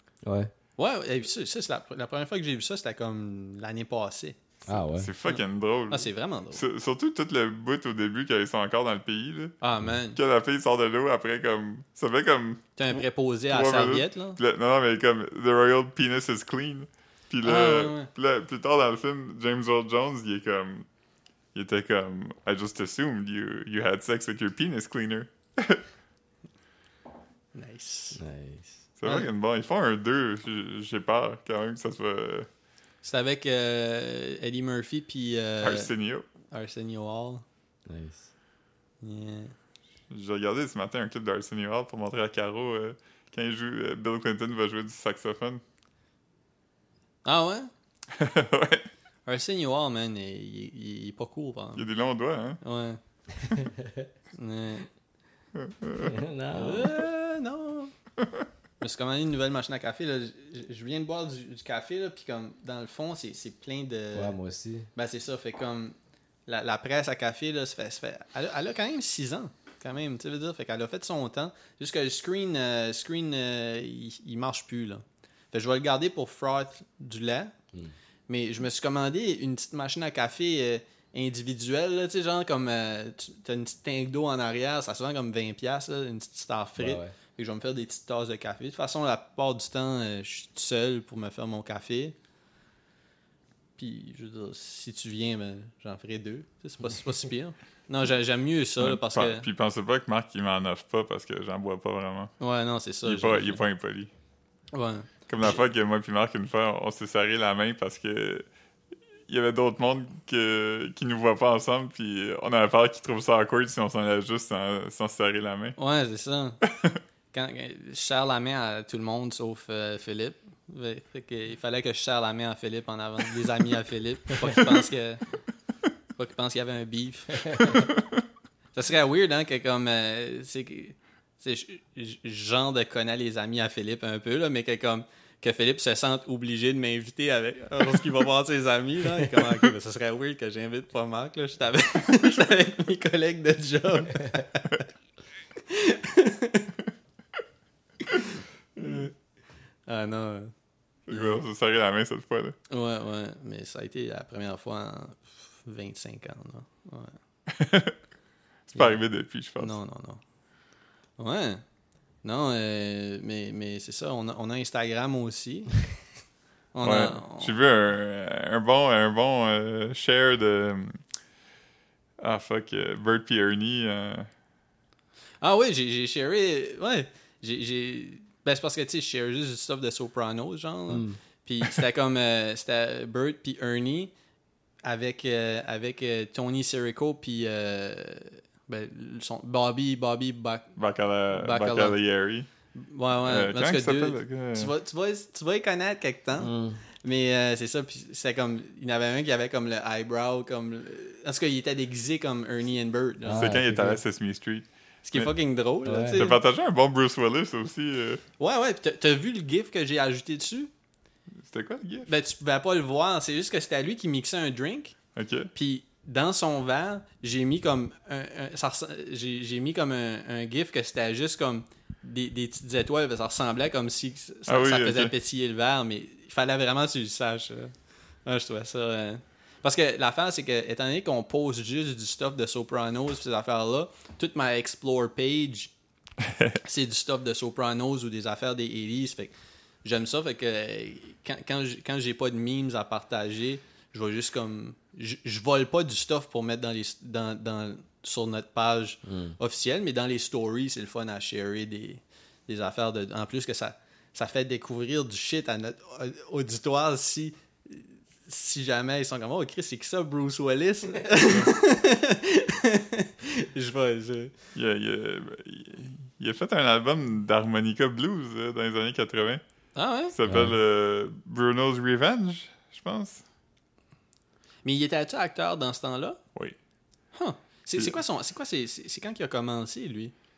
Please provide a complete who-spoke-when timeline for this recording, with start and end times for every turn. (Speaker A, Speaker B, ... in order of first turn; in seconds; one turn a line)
Speaker A: 0.2-0.5
Speaker B: 0.8-4.4
Speaker A: 4.6-5.1
Speaker C: 4.9-9.6
Speaker B: 5.2-6.6
Speaker B: 9.6-10.2
Speaker C: 10.1-20.9
Speaker B: 12.8-14.4
Speaker B: 17.4-18.1
Speaker C: 21.5-25.8
Speaker B: 27.5-28.2
Speaker A: 28.1-28.8
Speaker C: 29.0-32.5
Speaker B: 33.0-35.9
Speaker C: 35.6-36.3
Speaker B: 36.5-37.4
Speaker A: 37.9-38.3
Speaker B: 39.0-39.5
Speaker C: 40.1-45.6
Speaker B: 47.2-47.7
Speaker C: 48.1-48.9
Speaker B: 49.2-51.9
Speaker C: 51.8-52.6
Speaker B: 52.6-53.0
Speaker A: 53.8-54.1
Speaker B: 54.3-54.9
Speaker C: 55.5-56.1
Speaker A: 56.0-57.0
Speaker B: 56.5-57.9
Speaker B: 58.8-64.3
Speaker A: 64.1-64.9
Speaker B: 64.9-65.9
Speaker B: 66.5-77.5
Speaker B: 78.3-92.1
Speaker A: 86.8-87.1
Speaker B: 93.8-99.5
Speaker C: 98.8-102.3
Speaker B: 102.4-103.6
Speaker C: 103.0-104.1
Speaker B: 104.7-105.5
Speaker C: 105.3-108.5
Speaker C: 109.3-115.8
Speaker B: 115.8-116.6
Speaker B: 117.3-125.3
Speaker B: 126.2-127.9
Speaker B: 128.7-144.8
Speaker B: 145.6-146.7
Speaker B: 148.1-149.1
Speaker C: 148.8-149.0
Speaker B: 149.9-150.5
Speaker C: 151.1-152.6
Speaker B: 151.1-151.4
Speaker B: 152.7-157.2
Speaker C: 157.5-157.9
Speaker C: 158.7-159.8
Speaker B: 159.6-160.2
Speaker B: 161.2-161.6
Speaker B: 162.2-165.8
Speaker B: 166.7-167.5
Speaker C: 166.8-171.0
Speaker C: 172.2-174.3
Speaker B: 175.4-184.1
Speaker A: 180.9-181.2
Speaker B: 184.8-190.8
Speaker C: 190.8-192.5
Speaker B: 191.3-192.0
Speaker B: 192.7-203.6
Speaker C: 193.2-194.7
Speaker A: 196.4-196.8
Speaker A: 203.2-204.0
Speaker C: 203.3-205.3
Speaker B: 205.0-206.4
Speaker A: 205.8-206.2
Speaker C: 206.1-208.2
Speaker B: 208.4-210.7
Speaker C: 211.4-212.1
Speaker B: 212.1-214.9
Speaker C: 215.2-215.5
Speaker B: 215.5-227.7
Speaker C: 224.5-225.1
Speaker B: 228.2-235.7
Speaker B: 236.6-264.3
Speaker A: 249.0-249.4
Speaker C: 264.5-269.4
Speaker B: 269.7-270.1
Speaker C: 270.1-273.2
Speaker A: 270.2-270.6
Speaker B: 274.6-276.2
Speaker B: 277.1-280.1